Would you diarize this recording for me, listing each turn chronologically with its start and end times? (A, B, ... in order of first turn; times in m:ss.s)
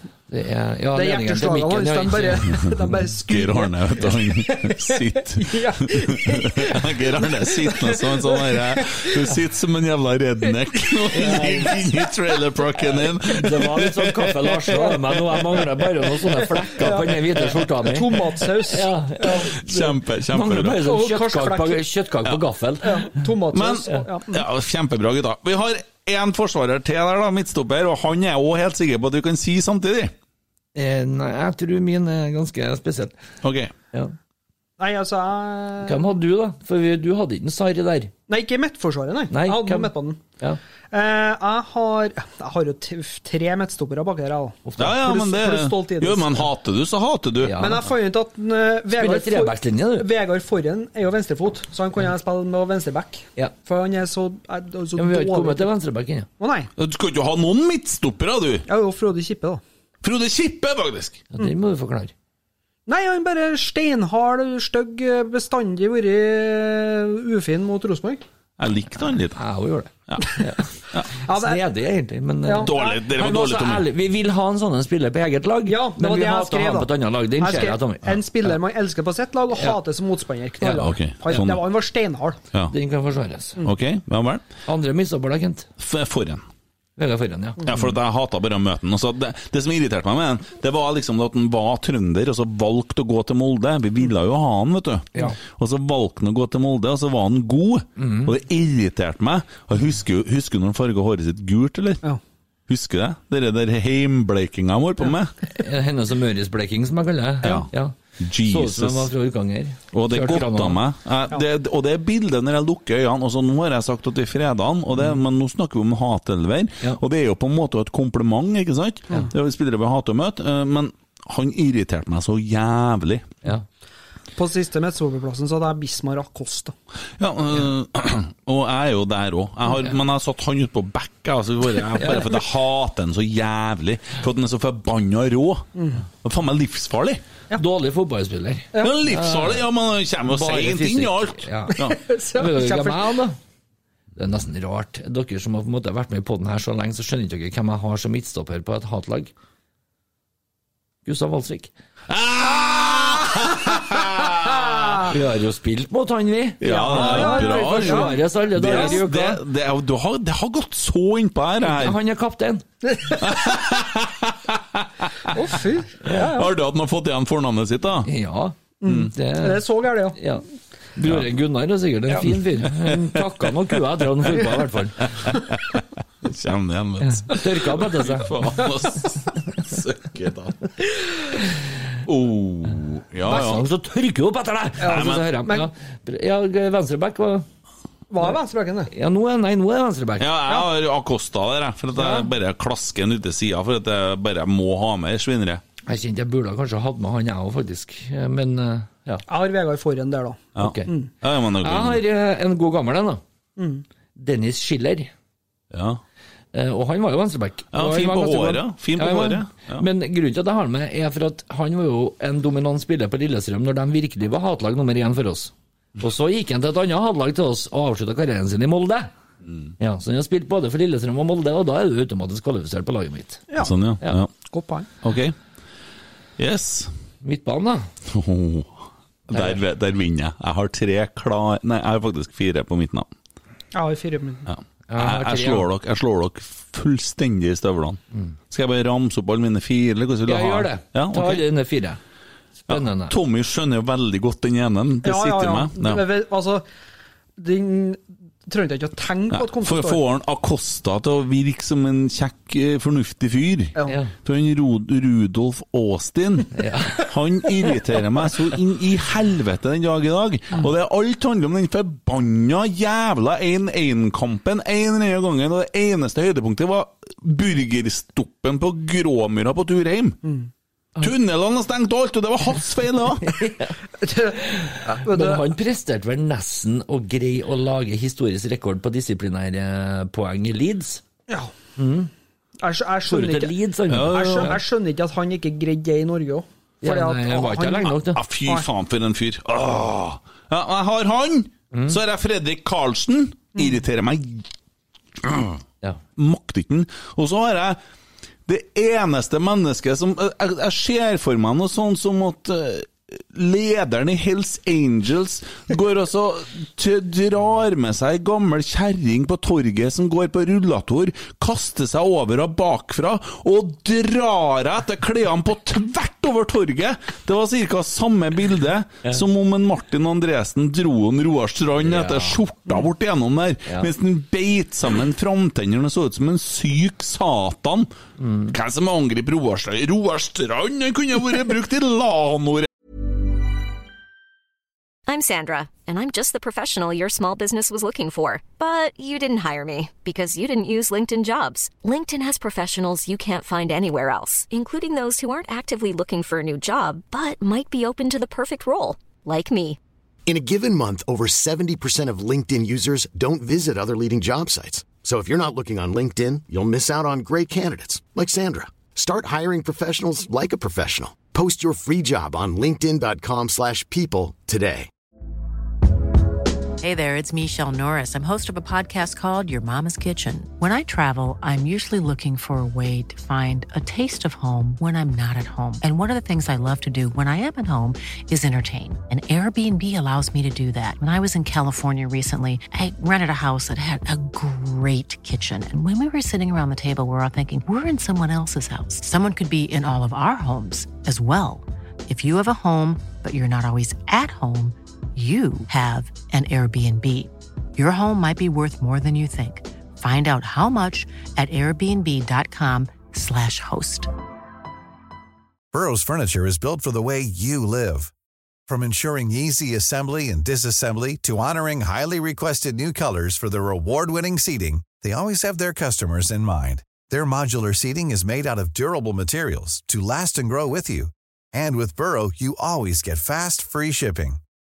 0:00.3-0:02.6 A
0:00.9-0:09.2 B
0:03.3-0:14.3 C
0:11.1-0:11.8 A
0:11.2-0:11.7 B
0:13.3-0:23.2 A
0:14.7-0:15.0 B
0:16.8-0:17.3 B
0:17.8-0:19.5 B
0:19.6-0:20.8 C
0:20.8-0:21.8 B
0:22.8-0:24.4 B
0:23.5-0:30.1 C
0:30.8-0:33.1 A
0:33.4-0:33.7 C
0:34.8-0:36.1 B
0:35.8-0:38.1 A
0:38.3-0:40.2 B
0:39.3-0:40.6 A
0:40.9-0:46.4 B
0:44.6-0:44.9 A
0:44.8-0:47.8 C
0:47.4-0:47.8 A
0:47.6-0:55.7 B
0:48.9-0:50.1 A
0:55.0-0:56.3 A
0:56.4-0:56.7 B
0:56.8-0:58.6 C
0:58.7-0:59.6 B
1:00.0-1:01.2 C
1:01.3-1:02.1 A
1:02.9-1:08.2 B
1:08.6-1:09.4 C
1:09.4-1:10.7 A
1:11.2-1:11.6 B
1:11.3-1:18.6 A
1:12.5-1:13.0 B
1:12.6-1:13.8 C
1:15.7-1:22.4 B
1:20.6-1:21.4 A
1:20.7-1:21.6 C
1:22.7-1:23.6 A
1:23.6-1:24.4 C
1:24.7-1:25.7 A
1:25.8-1:26.4 C
1:27.0-1:27.8 A
1:27.7-1:42.0 C
1:38.0-1:38.3 A
1:42.7-1:45.3 C
1:45.5-1:50.8 A
1:47.4-1:47.7 C
1:48.2-1:49.1 C
1:49.9-2:03.3 C
2:04.4-2:06.7 B
2:07.2-2:15.7 C
2:12.0-2:12.3 A
2:15.8-2:16.0 B
2:16.2-2:17.2 C
2:17.6-2:19.7 A
2:18.8-2:22.0 C
2:20.3-2:21.8 A
2:21.8-2:23.2 B
2:22.3-2:23.4 A
2:24.2-2:29.3 A
2:31.0-2:31.7 A
2:32.1-2:35.1 C
2:34.5-2:35.1 B
2:35.0-2:39.4 A
2:36.6-2:42.0 C
2:36.6-2:39.0 B
2:41.7-2:42.6 A
2:42.9-2:43.2 B
2:43.2-2:44.9 C
2:45.3-2:46.5 B
2:46.1-2:48.1 C
2:48.1-2:48.6 A
2:48.8-2:50.2 B
2:49.1-2:50.4 A
2:51.0-2:55.1 A
2:55.2-3:00.7 C
2:57.1-2:58.4 A
3:02.0-3:03.6 C
3:03.2-3:07.5 A
3:04.8-3:05.7 B
3:04.8-3:05.3 C
3:08.1-3:08.9 B
3:08.9-3:10.3 A
3:10.2-3:15.6 C
3:12.0-3:12.3 B
3:15.9-3:19.2 A
3:19.3-3:21.1 B
3:20.6-3:22.0 C
3:20.6-3:20.9 A
3:21.6-3:23.2 A
3:23.6-3:23.8 B
3:24.2-3:25.1 A
3:25.7-3:26.0 C
3:26.5-3:39.1 A
3:27.7-3:29.8 C
3:39.8-3:43.4 A
3:43.6-3:44.3 C
3:44.5-3:44.9 B
3:45.0-3:45.4 C
3:46.4-3:46.9 C
3:47.2-3:47.9 A
3:48.1-3:48.7 C
3:49.3-3:53.1 C
3:49.3-3:49.6 A
3:53.7-3:54.5 B
3:54.5-4:01.4 C
3:54.9-3:55.7 A
4:00.3-4:02.0 A
4:02.7-4:03.2 A
4:02.7-4:06.0 C
4:05.0-4:06.6 B
4:07.4-4:10.0 B
4:09.3-4:30.2 C
4:13.9-4:14.1 A
4:16.5-4:17.1 A
4:31.0-4:33.4 C
4:33.3-4:33.7 A
4:34.0-4:35.4 B
4:34.4-4:41.0 A
4:41.8-4:42.1 A
4:42.6-4:43.6 B
4:43.1-4:44.6 A
4:43.9-4:44.6 C
4:44.1-4:48.7 B
4:46.8-4:48.2 A
4:48.1-4:54.5 C
4:51.7-4:52.0 A
4:55.2-4:55.6 C
4:56.2-4:57.8 C
4:58.5-5:27.9 C
5:21.8-5:22.4 A
5:28.2-5:28.6 A
5:28.5-5:32.7 C
5:35.1-5:49.8 D
5:50.3-6:04.9 E
6:06.8-6:44.1 F
6:45.7-6:48.1 G
6:48.7-7:04.4 G